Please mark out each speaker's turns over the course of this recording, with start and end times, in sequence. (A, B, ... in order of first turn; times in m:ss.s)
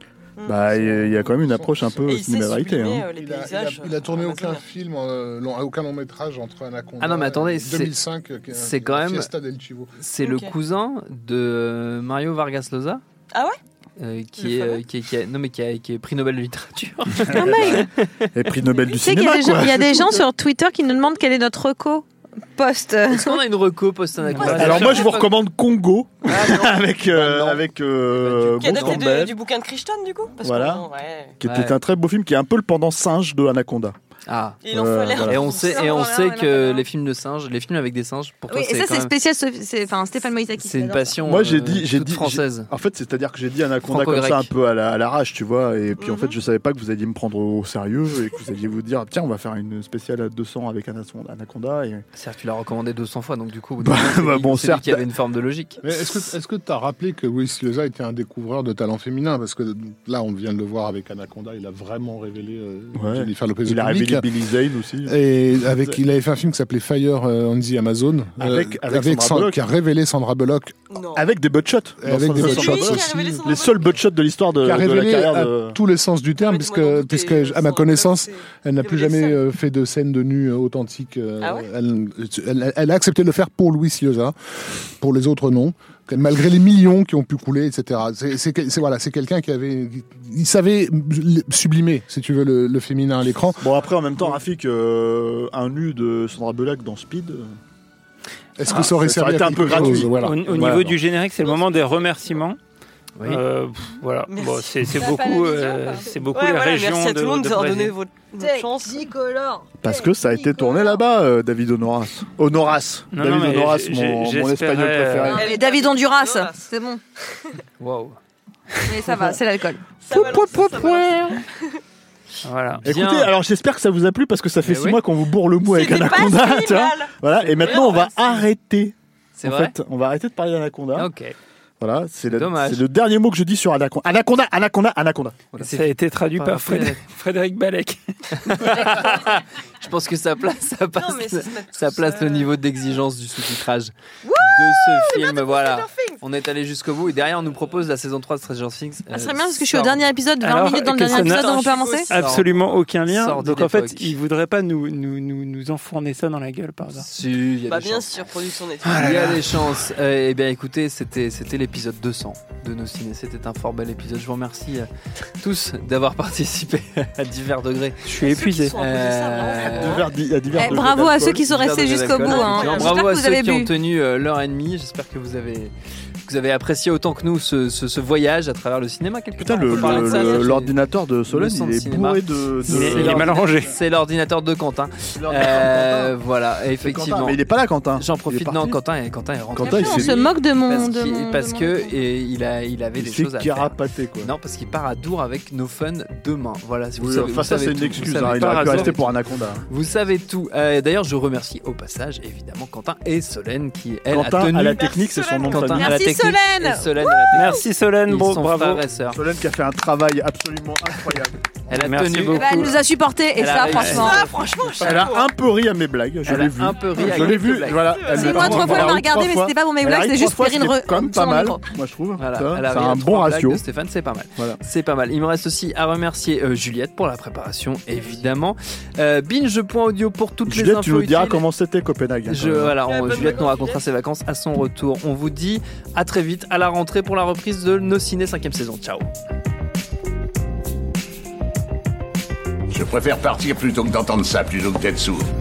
0:00.4-0:00.7 A
0:00.4-0:03.1 B
0:00.7-0:02.0 C
0:02.0-0:04.6 A
0:03.1-0:10.0 C
0:07.0-0:08.0 D
0:08.5-0:09.3 D
0:10.0-0:13.0 D
0:10.2-0:10.5 A
0:13.3-0:13.6 A
0:14.0-0:18.3 D
0:14.4-0:14.8 A
0:17.3-0:17.8 E
0:17.3-0:20.3 B
0:18.9-0:23.4 E
0:23.1-0:25.4 D
0:24.3-0:24.8 F
0:24.4-0:29.4 B
0:26.3-0:29.1 D
0:28.6-0:31.4 A
0:30.4-0:30.8 B
0:31.4-0:34.0 B
0:31.4-0:31.8 D
0:34.3-0:34.6 D
0:34.6-0:35.9 A
0:34.7-0:35.5 B
0:35.2-0:39.1 D
0:35.4-0:36.8 E
0:38.5-0:41.2 E
0:40.6-0:42.7 D
0:41.2-0:52.0 B
0:43.9-0:44.5 D
0:46.0-0:46.4 A
0:52.1-0:55.8 D
0:53.8-0:55.0 B
0:55.8-1:04.2 C
1:02.9-1:06.0 B
1:05.0-1:10.8 C
1:08.4-1:09.6 B
1:10.9-1:11.3 A
1:11.1-1:15.8 B
1:12.0-1:13.5 C
1:12.4-1:14.0 A
1:14.6-1:24.3 C
1:16.4-1:19.4 A
1:21.4-1:21.7 A
1:24.9-1:33.7 C
1:33.6-1:37.6 B
1:38.6-1:40.4 C
1:38.6-1:41.0 B
1:40.1-1:42.6 F
1:43.2-1:48.0 F
1:44.3-1:44.8 A
1:44.9-1:46.1 E
1:46.3-1:49.1 A
1:48.4-1:51.0 E
1:49.8-1:55.6 B
1:53.1-1:55.4 F
1:55.3-1:57.0 E
1:55.3-1:56.7 A
1:57.8-1:58.2 D
1:58.8-1:59.9 E
1:59.1-1:59.4 B
2:00.0-2:01.8 A
2:00.1-2:01.4 B
2:02.4-2:02.8 F
2:02.8-2:03.3 D
2:02.8-2:11.1 B
2:04.6-2:05.0 D
2:05.6-2:08.4 A
2:09.4-2:09.7 D
2:10.9-2:11.3 D
2:11.8-2:15.6 B
2:12.3-2:12.9 D
2:15.5-2:17.0 D
2:15.6-2:18.8 F
2:18.3-2:30.0 D
2:20.9-2:22.5 A
2:24.2-2:25.0 E
2:25.0-2:26.2 A
2:29.1-2:32.1 E
2:30.4-2:37.1 F
2:31.0-2:32.1 A
2:32.1-2:34.1 D
2:37.0-2:44.9 D
2:37.7-2:39.2 A
2:38.8-2:39.6 F
2:45.4-2:48.1 D
2:48.0-2:48.8 F
2:48.2-2:50.1 A
2:48.7-2:50.1 D
2:49.6-2:51.5 B
2:50.5-2:53.7 E
2:51.4-2:55.7 D
2:52.1-2:53.2 A
2:56.2-3:07.4 D
2:59.4-3:03.4 B
3:00.0-3:00.4 A
3:02.7-3:03.8 F
3:05.1-3:06.2 B
3:06.8-3:08.8 B
3:07.9-3:24.9 D
3:09.5-3:10.2 B
3:09.6-3:12.0 E
3:13.0-3:14.3 B
3:17.0-3:19.6 B
3:24.1-3:26.0 B
3:24.6-3:25.8 A
3:25.5-3:29.2 D
3:25.8-3:27.0 E
3:27.3-3:28.8 F
3:29.1-3:31.4 B
3:31.7-3:32.8 D
3:31.7-3:32.8 F
3:32.3-3:34.2 E
3:33.3-3:34.3 D
3:33.8-3:34.1 F
3:33.9-3:35.3 A
3:34.8-3:43.6 B
3:36.2-3:39.0 D
3:37.8-3:38.6 A
3:38.2-3:41.6 E
3:42.2-3:51.5 D
3:50.5-3:52.8 B
3:52.3-3:59.1 D
3:52.8-3:53.8 A
4:02.7-4:05.3 G